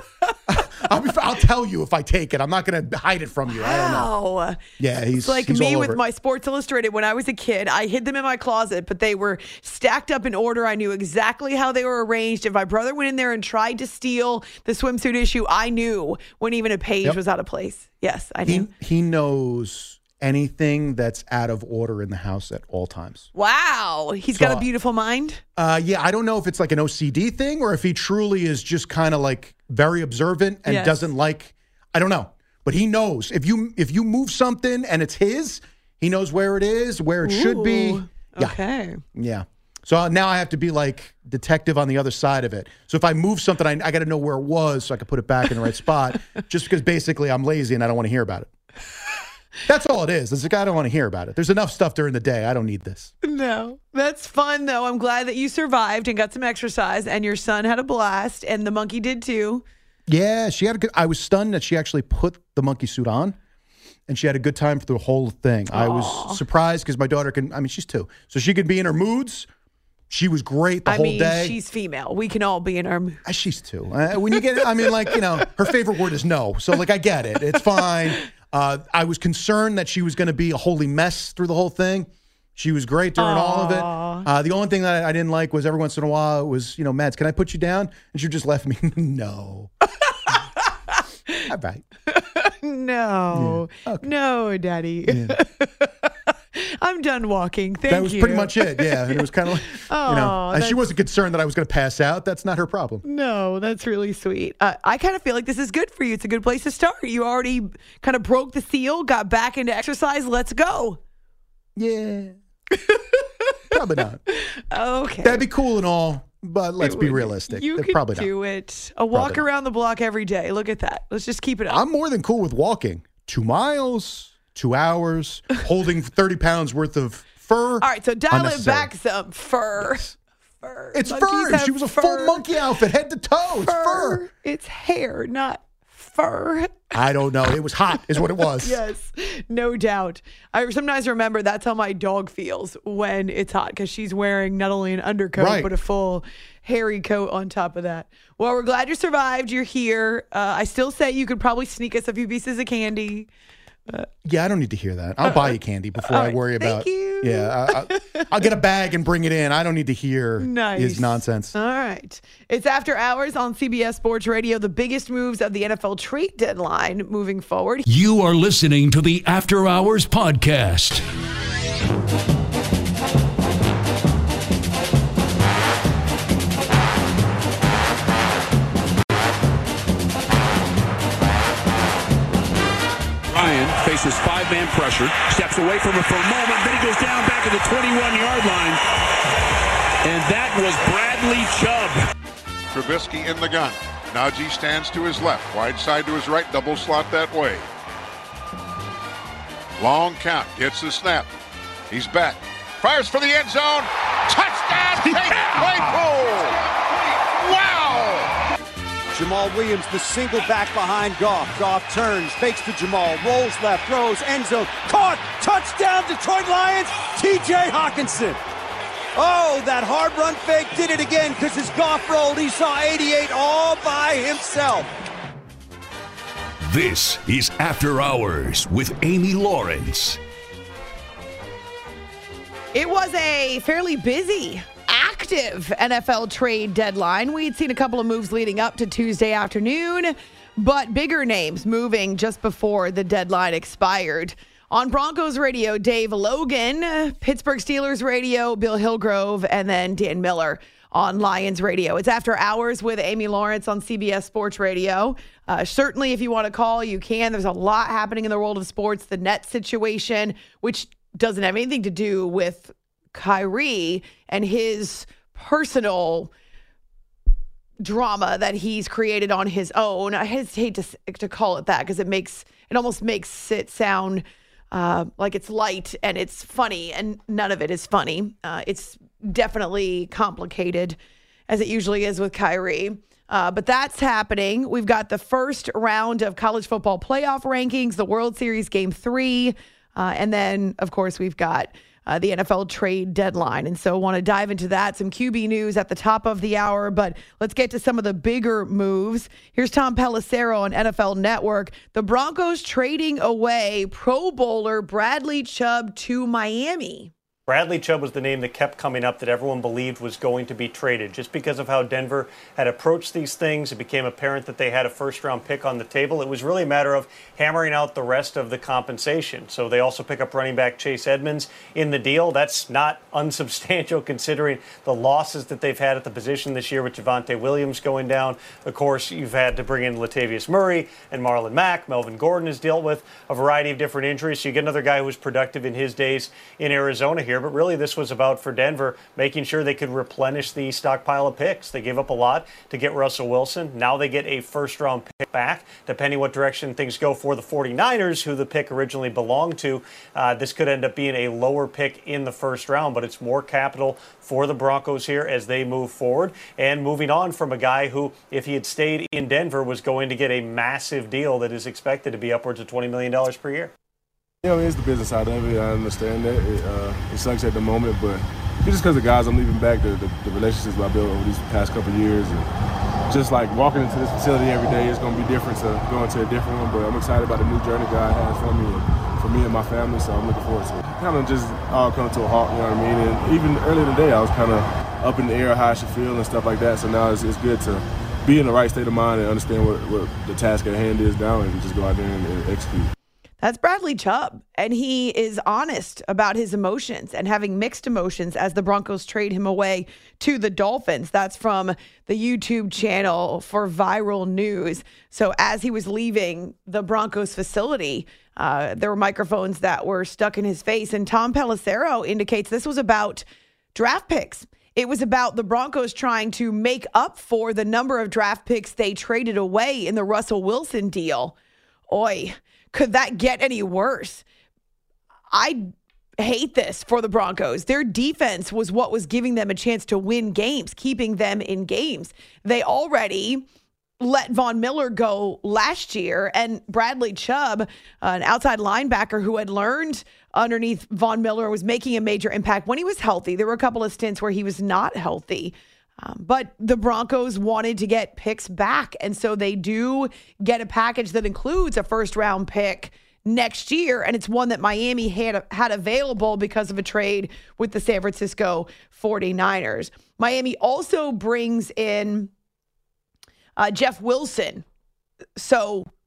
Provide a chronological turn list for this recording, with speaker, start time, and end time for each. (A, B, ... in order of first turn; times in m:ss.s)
0:00.5-0:04.1 A
0:03.5-0:04.6 B
0:04.8-0:06.0 A
0:05.2-0:18.7 B
0:18.4-0:23.3 A
0:23.4-0:25.4 B
0:24.3-0:24.6 A
0:25.6-0:38.6 A
0:30.7-0:31.1 B
0:37.2-0:39.0 B
0:39.2-0:48.5 A
0:49.7-0:53.1 A
0:53.2-0:59.6 B
1:00.1-1:03.4 A
1:04.1-1:09.5 A
1:05.7-1:06.4 B
1:10.1-1:11.6 A
1:10.9-1:13.2 B
1:13.2-1:29.7 A
1:14.3-1:15.6 B
1:23.2-1:24.3 B
1:31.5-1:31.8 A
1:32.1-1:40.8 B
1:33.3-1:34.1 A
1:35.1-1:35.4 A
1:37.9-1:43.0 A
1:43.0-1:51.0 B
1:51.8-1:52.4 A
1:52.7-1:53.8 B
1:53.7-1:54.2 A
1:54.3-1:55.5 B
1:55.2-1:58.3 A
1:56.8-2:01.8 B
1:59.1-1:59.4 A
2:01.7-2:08.9 A
2:07.8-2:12.6 B
2:10.9-2:14.2 A
2:13.6-2:17.0 B
2:16.9-2:18.8 A
2:18.6-2:33.3 B
2:25.4-2:25.7 A
2:34.2-2:41.5 A
2:36.0-2:38.5 B
2:40.4-2:47.8 B
2:47.9-2:51.0 C
3:03.3-3:08.8 D
3:10.0-3:12.0 D
3:12.7-3:17.6 E
3:19.8-3:21.3 E
3:21.9-3:26.6 E
3:27.2-3:28.3 E
3:29.1-3:38.4 F
3:39.2-3:44.9 F
3:46.7-3:50.2 C
3:52.7-4:26.3 B
4:27.8-4:41.0 B
4:41.5-5:07.1 B
5:07.5-6:03.7 G
6:04.4-6:12.5 H
6:13.1-6:32.9 H
6:33.4-7:01.4 B
7:01.9-7:04.2 B
7:05.3-7:13.4 B
7:14.0-7:42.3 B
7:43.6-7:44.6 B
7:45.4-7:45.9 B